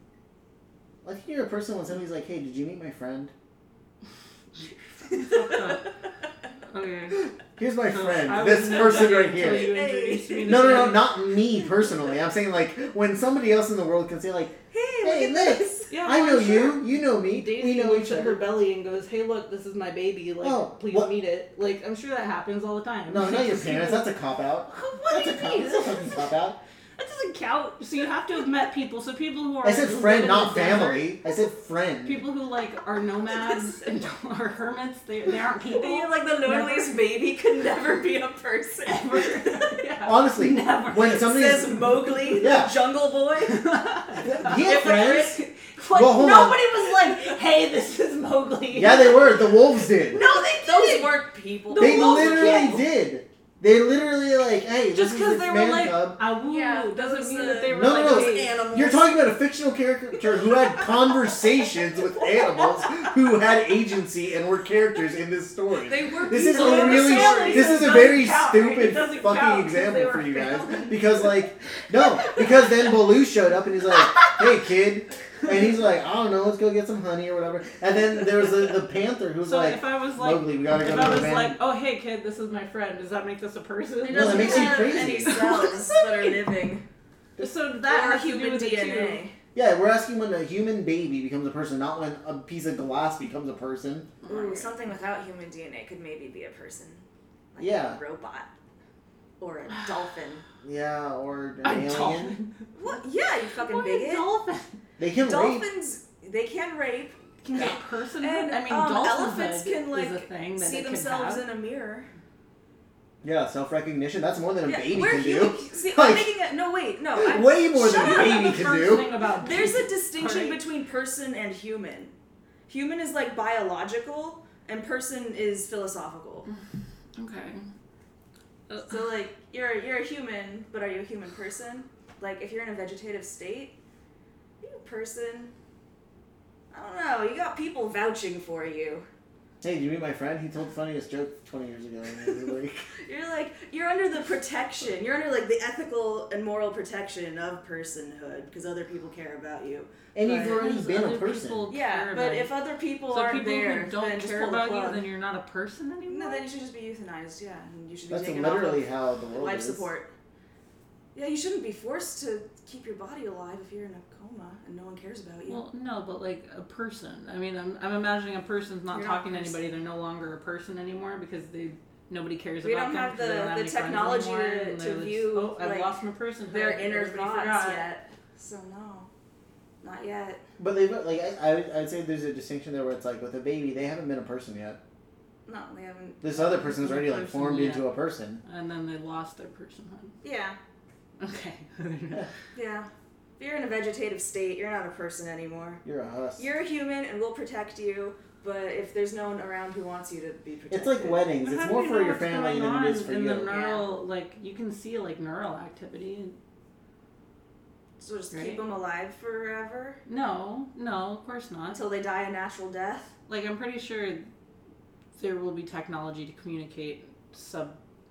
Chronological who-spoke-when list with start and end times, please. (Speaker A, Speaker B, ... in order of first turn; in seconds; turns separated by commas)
Speaker A: 1.0-3.3, Speaker B: 4.6-5.9, Speaker C: 5.1-5.9, Speaker B: 6.7-7.3, Speaker A: 7.6-9.8, Speaker B: 7.9-11.1, Speaker C: 8.6-11.0, Speaker A: 10.4-18.4, Speaker C: 14.7-15.9, Speaker B: 15.9-24.1, Speaker A: 20.4-21.1, Speaker A: 23.1-26.6, Speaker B: 24.7-26.3, Speaker B: 27.0-31.1, Speaker A: 29.6-32.2, Speaker B: 32.0-37.0, Speaker C: 35.7-39.8, Speaker B: 38.8-42.5, Speaker A: 40.0-41.8, Speaker C: 41.0-43.7, Speaker A: 42.4-42.7, Speaker B: 43.5-52.9, Speaker A: 44.2-45.4, Speaker C: 44.5-45.4, Speaker A: 45.9-46.6, Speaker C: 46.4-47.4, Speaker A: 48.7-50.2, Speaker C: 50.1-52.8, Speaker A: 51.8-56.2, Speaker B: 54.9-58.6, Speaker C: 56.5-59.1, Speaker A: 57.7-81.6, Speaker C: 60.3-62.8, Speaker C: 65.8-68.1, Speaker B: 66.5-71.3, Speaker B: 72.0-72.4, Speaker B: 74.0-74.4, Speaker B: 79.4-86.4, Speaker C: 84.0-86.8, Speaker A: 84.1-85.6, Speaker B: 87.4-89.2, Speaker C: 87.9-89.3, Speaker A: 89.5-94.1, Speaker B: 94.2-94.8, Speaker C: 94.3-98.5, Speaker A: 97.6-98.0, Speaker C: 99.4-100.4, Speaker A: 100.6-102.3, Speaker B: 101.6-103.0, Speaker C: 102.8-104.2, Speaker B: 103.5-104.7, Speaker A: 105.0-105.6, Speaker C: 105.2-112.1, Speaker B: 107.5-111.5, Speaker A: 113.2-116.3, Speaker C: 114.7-118.7, Speaker A: 117.2-119.1, Speaker B: 117.9-120.6, Speaker C: 119.3-122.1, Speaker C: 122.7-126.5, Speaker B: 127.2-127.7, Speaker B: 128.7-129.0, Speaker C: 128.8-133.8, Speaker C: 134.6-135.5, Speaker C: 136.7-139.1, Speaker A: 139.6-142.9, Speaker C: 143.0-150.6, Speaker A: 150.2-151.7, Speaker B: 150.2-152.5, Speaker C: 151.7-155.0, Speaker B: 153.1-156.4, Speaker C: 156.1-160.1, Speaker A: 158.1-159.9, Speaker C: 161.2-165.6, Speaker B: 165.5-177.9, Speaker C: 168.9-169.6, Speaker C: 172.6-175.9, Speaker C: 176.5-179.1, Speaker C: 179.8-180.4, Speaker A: 180.6-184.8, Speaker C: 185.5-186.3, Speaker A: 186.2-188.4, Speaker B: 186.3-187.9, Speaker B: 188.4-190.2, Speaker C: 190.2-190.6, Speaker B: 191.2-192.3, Speaker C: 192.5-195.8, Speaker A: 195.8-196.5, Speaker C: 196.4-201.2, Speaker A: 200.7-203.5, Speaker B: 201.4-206.4, Speaker C: 203.5-203.9, Speaker C: 208.0-210.0, Speaker B: 208.3-208.6, Speaker B: 210.1-211.8, Speaker C: 211.7-213.2, Speaker B: 213.3-214.3, Speaker B: 215.2-217.8